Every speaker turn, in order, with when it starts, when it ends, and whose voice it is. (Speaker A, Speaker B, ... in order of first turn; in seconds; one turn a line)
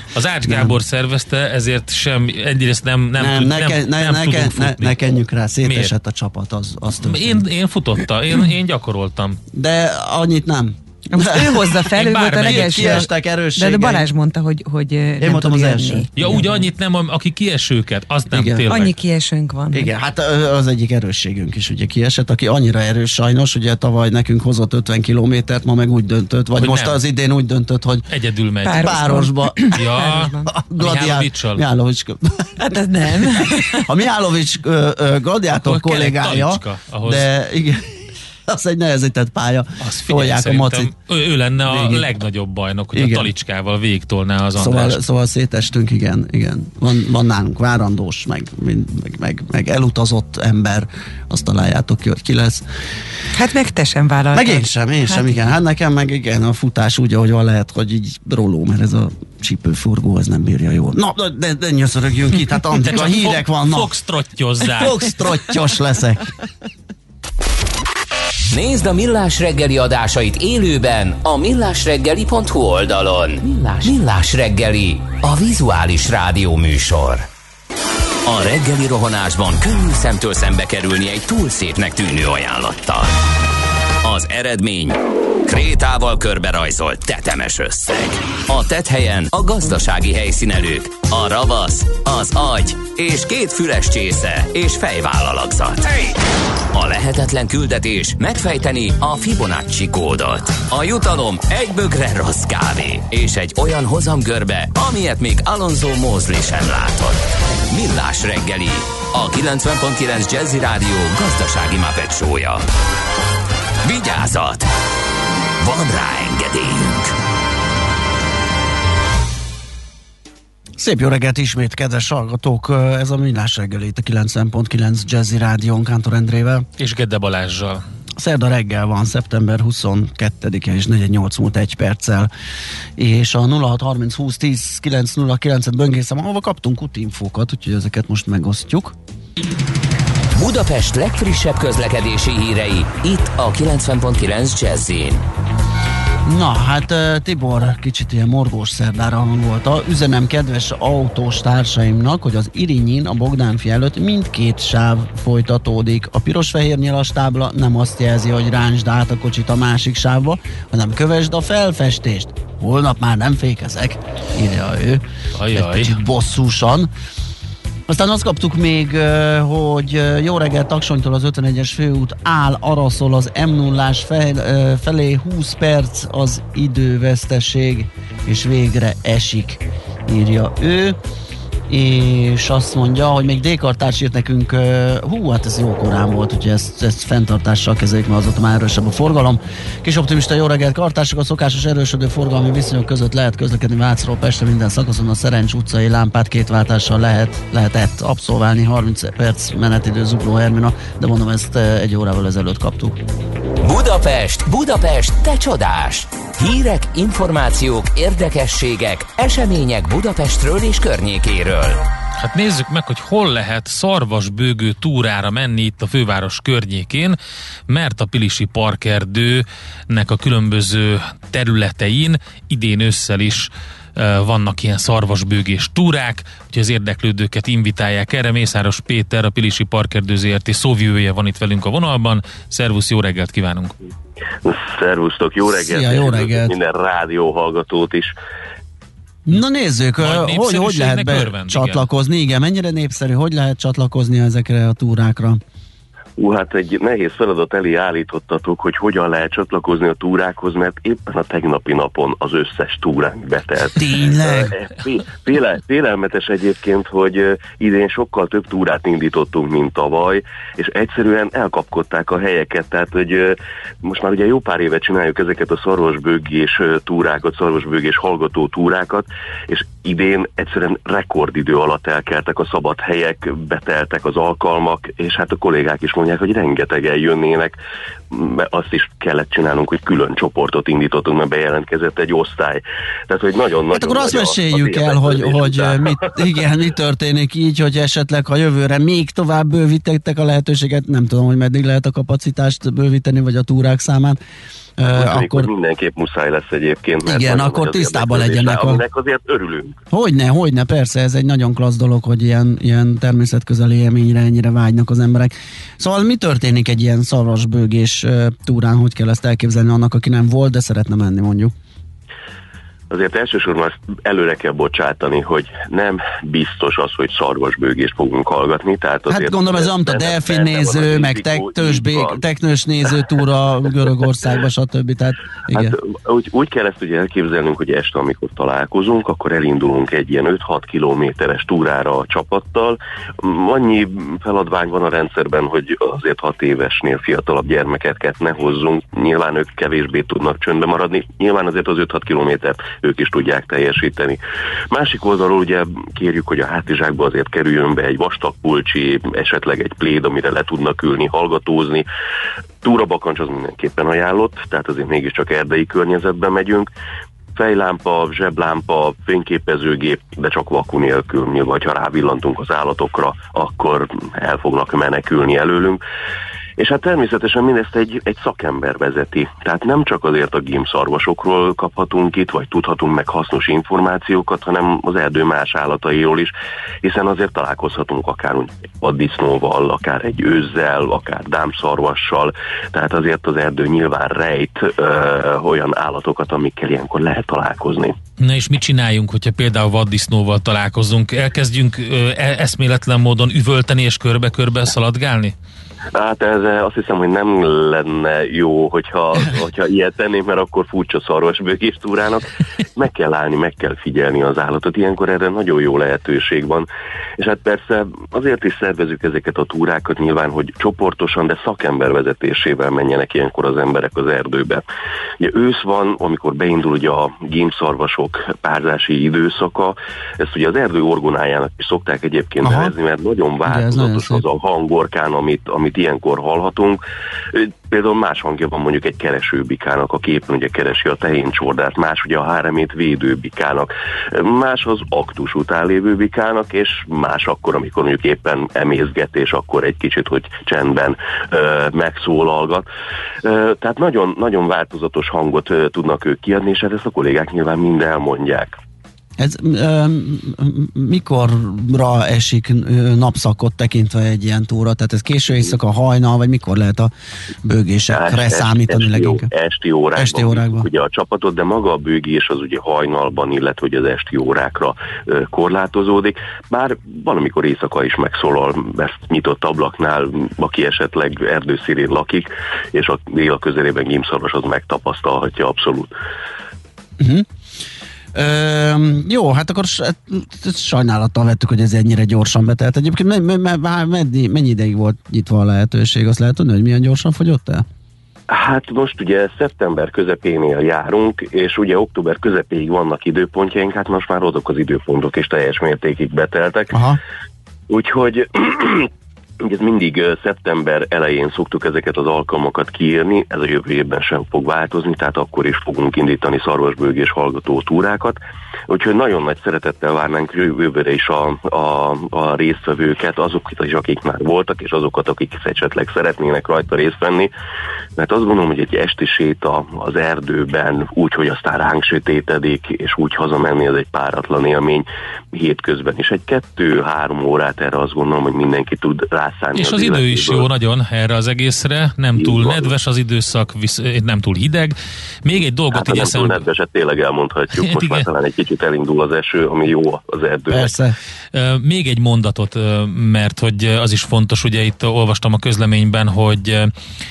Speaker A: 0.1-5.0
Speaker B: 0.4-0.8
Speaker B: 3.2-7.5
Speaker A: 5.6-5.9
Speaker A: 7.0-9.4
Speaker B: 9.5-14.1
Speaker C: 11.1-16.6
Speaker A: 11.9-13.1
Speaker B: 15.2-16.6
Speaker A: 16.1-18.9
Speaker B: 18.3-18.7
Speaker C: 18.7-19.9
Speaker B: 19.7-28.1
Speaker A: 26.6-27.0
Speaker A: 28.1-29.2
Speaker C: 28.6-30.6
Speaker B: 28.8-29.9
Speaker A: 29.7-31.6
Speaker B: 30.5-40.9
Speaker C: 32.6-33.9
Speaker A: 35.6-37.3
Speaker A: 39.8-45.0
Speaker B: 41.7-42.1
Speaker B: 42.9-43.3
Speaker B: 44.5-52.6
Speaker C: 53.3-55.4
Speaker B: 54.3-63.9
Speaker A: 62.9-65.2
Speaker B: 64.7-66.3
Speaker D: 68.5-77.3
Speaker D: 78.3-83.1
Speaker D: 84.0-96.2
Speaker D: 96.7-112.6
Speaker D: 113.8-114.7
Speaker D: 115.6-117.1
Speaker B: 120.8-126.7
Speaker A: 126.8-127.8
Speaker B: 128.2-132.3
Speaker B: 133.0-139.0
Speaker D: 140.3-145.2
Speaker B: 146.2-166.9
Speaker A: 165.4-166.0
Speaker B: 167.9-181.0
Speaker B: 181.7-203.0
Speaker D: 203.6-211.8
Speaker A: 212.2-217.2
Speaker A: 217.7-233.7
Speaker E: 234.4-238.1
Speaker B: 235.5-236.5
Speaker B: 239.3-245.4
Speaker A: 240.0-241.8
Speaker E: 246.2-277.6
Speaker B: 253.8-254.5
Speaker E: 278.1-286.4
Speaker B: 283.7-294.2
Speaker B: 294.8-295.5
Speaker E: 294.9-299.8
Speaker B: 297.1-298.8
Speaker B: 299.9-311.5
Speaker E: 312.9-322.1
Speaker B: 319.1-325.8
Speaker E: 325.5-344.2
Speaker E: 344.7-351.9
Speaker E: 352.6-356.7
Speaker E: 357.4-365.8
Speaker E: 366.6-387.9
Speaker A: 388.2-395.3
Speaker E: 395.9-406.7
Speaker E: 407.2-414.6
Speaker E: 415.2-426.8
Speaker B: 422.4-422.7
Speaker B: 423.4-424.2
Speaker E: 427.3-442.7
Speaker E: 443.2-448.6
Speaker B: 449.2-456.9
Speaker B: 457.4-459.3
Speaker E: 457.9-475.9
Speaker B: 460.0-460.7
Speaker B: 477.0-477.3
Speaker B: 478.1-487.7
Speaker E: 488.3-496.8
Speaker B: 496.7-497.0
Speaker E: 497.7-498.9
Speaker E: 499.4-517.3
Speaker E: 518.0-530.5
Speaker A: 529.5-536.5
Speaker E: 532.2-532.7
Speaker E: 535.7-540.7
Speaker A: 537.6-538.1
Speaker B: 540.5-541.0
Speaker A: 541.3-546.7